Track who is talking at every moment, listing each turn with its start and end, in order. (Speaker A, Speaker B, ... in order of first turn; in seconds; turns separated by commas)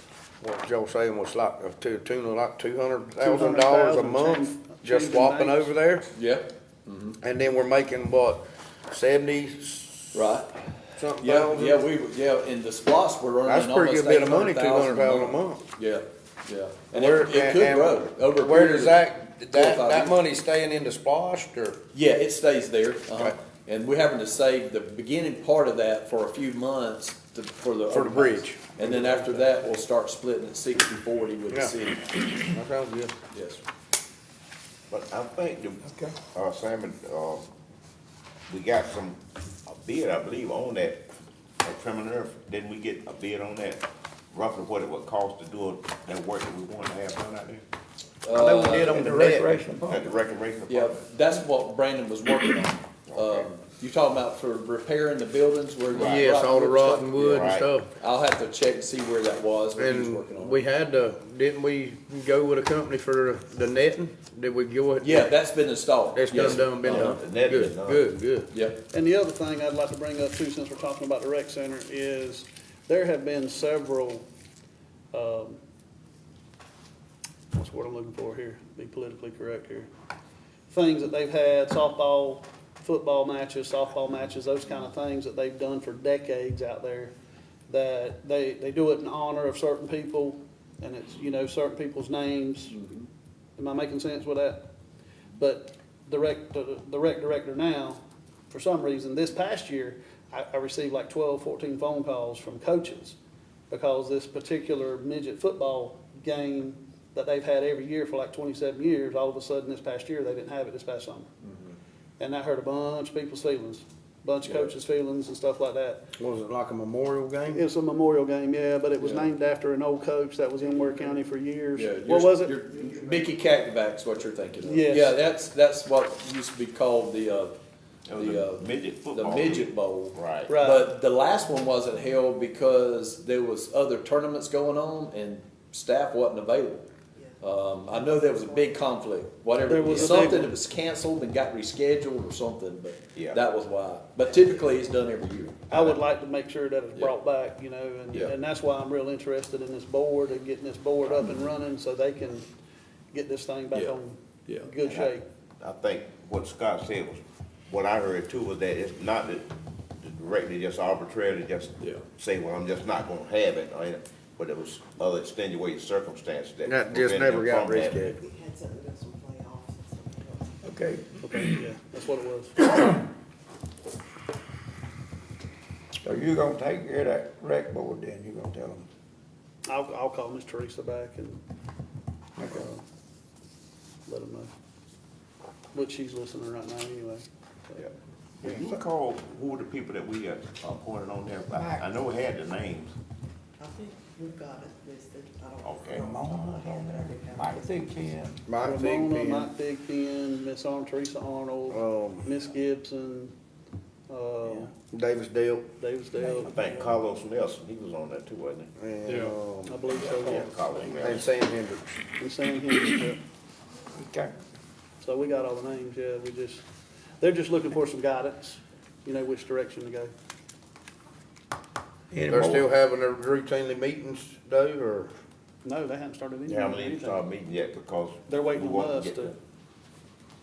Speaker A: 0.4-6.1, Speaker B: 3.2-5.7, Speaker C: 6.1-7.2, Speaker A: 7.2-10.2, Speaker C: 10.1-10.6, Speaker A: 11.0-11.8, Speaker C: 11.2-20.2, Speaker A: 13.4-15.6, Speaker A: 16.9-21.8, Speaker C: 21.9-32.1, Speaker A: 27.9-29.5, Speaker A: 32.3-33.1, Speaker C: 33.3-33.6, Speaker D: 34.9-37.5, Speaker D: 38.5-41.0, Speaker D: 41.6-47.6, Speaker C: 48.2-49.2, Speaker A: 48.3-50.0, Speaker D: 48.9-49.2, Speaker E: 48.9-49.9, Speaker D: 49.9-51.0, Speaker C: 50.7-57.1, Speaker D: 53.1-53.5, Speaker A: 55.9-57.9, Speaker D: 57.1-57.7, Speaker C: 58.0-60.6, Speaker A: 59.8-65.3, Speaker C: 65.0-67.2, Speaker A: 66.2-68.5, Speaker D: 66.3-68.0, Speaker C: 68.5-68.8, Speaker B: 68.9-74.2, Speaker B: 75.1-75.6, Speaker B: 77.5-79.9, Speaker B: 80.7-87.1, Speaker B: 87.7-92.8, Speaker C: 92.7-93.1, Speaker B: 93.6-94.6, Speaker B: 95.4-103.2, Speaker B: 103.7-111.3, Speaker C: 111.4-111.8, Speaker B: 112.2-116.0, Speaker C: 114.4-114.7, Speaker A: 116.2-117.6, Speaker B: 117.5-122.5, Speaker C: 119.0-119.3, Speaker C: 121.8-127.5, Speaker B: 124.6-125.2, Speaker D: 128.1-130.5, Speaker C: 128.2-136.9, Speaker B: 130.5-130.9, Speaker C: 137.4-146.0, Speaker F: 137.9-138.9, Speaker B: 139.7-140.5, Speaker D: 143.1-143.4, Speaker B: 145.7-152.5, Speaker B: 153.1-155.2, Speaker D: 154.8-168.2, Speaker A: 166.7-168.2, Speaker F: 168.1-170.6, Speaker E: 170.7-171.0, Speaker B: 171.2-172.5, Speaker E: 176.2-177.8, Speaker A: 177.2-178.8, Speaker B: 179.7-181.4, Speaker B: 182.4-182.8, Speaker B: 184.1-184.5, Speaker B: 185.7-187.8, Speaker D: 187.8-192.9, Speaker F: 193.6-198.1, Speaker D: 195.6-196.2, Speaker E: 196.1-198.3, Speaker A: 198.4-199.5, Speaker B: 198.6-203.3, Speaker A: 201.7-202.3, Speaker B: 204.1-204.7, Speaker A: 204.9-205.7, Speaker B: 205.8-206.9, Speaker D: 206.4-208.7, Speaker A: 208.8-210.3, Speaker B: 209.7-210.6, Speaker D: 209.9-211.3, Speaker A: 210.9-211.9, Speaker B: 212.2-213.2, Speaker B: 215.0-216.6, Speaker B: 217.2-220.1, Speaker A: 222.1-225.1, Speaker D: 222.3-222.7, Speaker B: 225.6-227.2, Speaker D: 226.4-229.3, Speaker B: 228.3-229.3